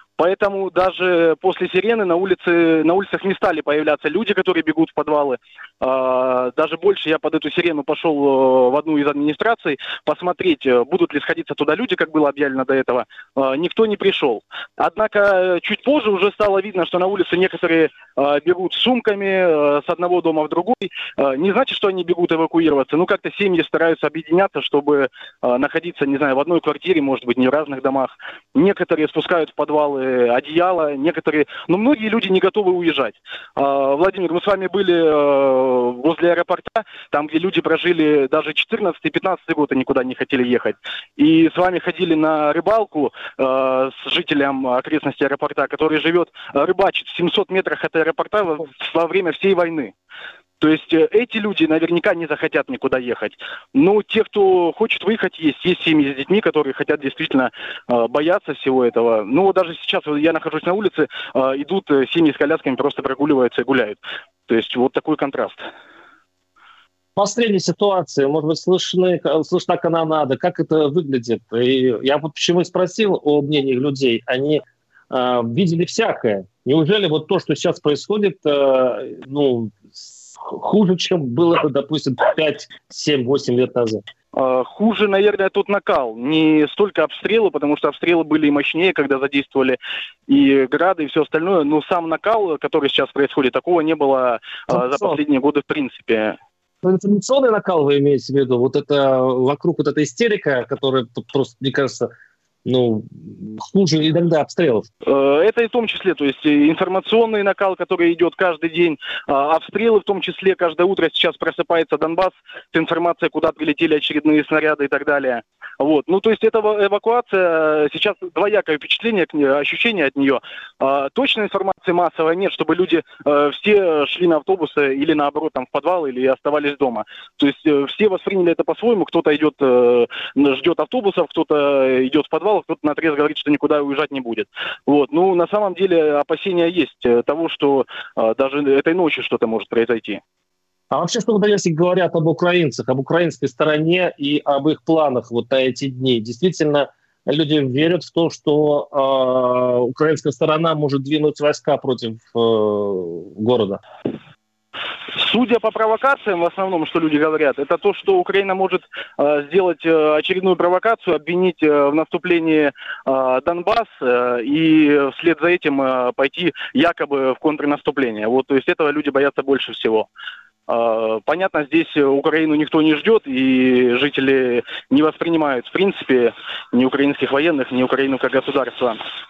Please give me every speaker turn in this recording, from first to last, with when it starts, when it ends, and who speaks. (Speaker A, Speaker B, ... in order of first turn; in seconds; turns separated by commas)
Speaker A: 0.2-49.9, Speaker A: 50.6-65.6, Speaker B: 67.2-84.0, Speaker A: 84.3-96.4, Speaker B: 94.7-95.2, Speaker B: 96.8-102.1, Speaker B: 102.6-104.9, Speaker A: 105.0-140.2, Speaker B: 140.9-153.8, Speaker A: 155.1-170.1, Speaker A: 170.7-179.0